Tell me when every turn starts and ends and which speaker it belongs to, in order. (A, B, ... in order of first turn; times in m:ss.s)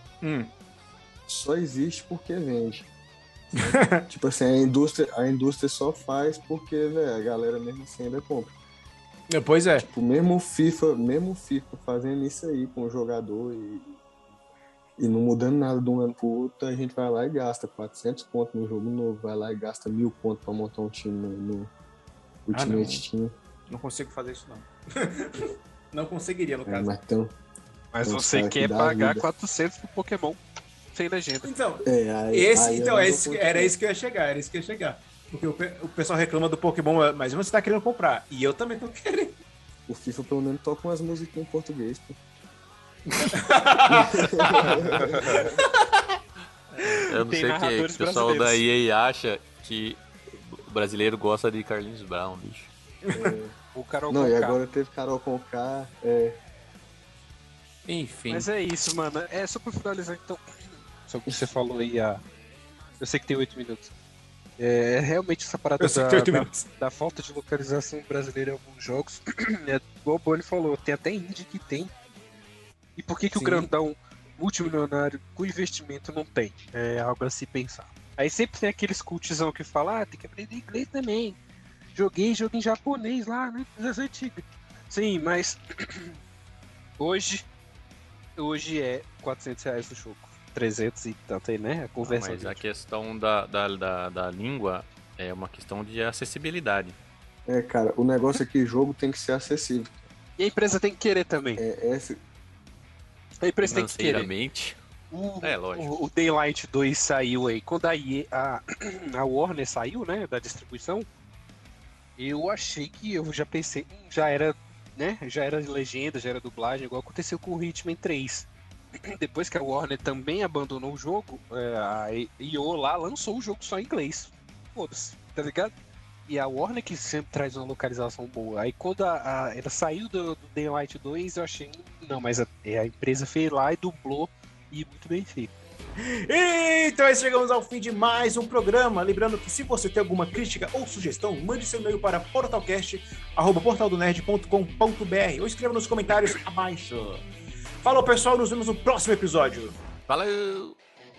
0:00.2-0:00.5 A
0:01.3-0:02.9 B
0:03.6-0:08.5 B
0:09.3-0:09.8 A
0:09.8-0:13.9 B
0:15.0-0:21.7 B
0:22.5-0:23.3 B
0:22.5-0:23.0 A
0:23.7-0:25.3 A
0:25.9-0:26.9 A
0:26.7-0:27.3 B
0:27.9-0:31.5 C
0:28.0-0:29.2 B
0:31.4-0:39.3 A
0:31.8-0:33.7 B
0:39.9-0:42.1 B
0:43.2-0:45.7 A
0:43.9-0:45.4 B
0:44.7-0:45.4 D
0:46.7-0:52.7 D
0:46.8-0:48.6 C
0:53.1-0:53.3 A
0:53.1-0:53.5 B
0:53.7-0:54.6 C
0:54.1-0:56.4 B
0:57.8-0:58.5 A
0:58.3-1:02.2 C
1:03.0-1:03.9 C
1:04.6-1:11.9 C
1:05.8-1:06.6 A
1:13.0-1:21.4 C
1:13.3-1:13.7 A
1:21.9-1:26.2 C
1:27.0-1:27.5 C
1:28.4-1:32.6 C
1:32.0-1:37.0 D
1:37.4-1:40.0 B
1:40.4-1:41.6 C
1:41.6-1:42.2 B
1:43.4-1:44.3 C
1:43.6-1:44.8 D
1:45.1-1:51.1 C
1:45.4-1:45.9 D
1:52.2-1:58.5 C
1:59.1-2:05.7 C
2:06.2-2:15.5 C
2:16.3-2:27.2 A
2:27.8-2:29.7 A
2:30.1-2:30.8 D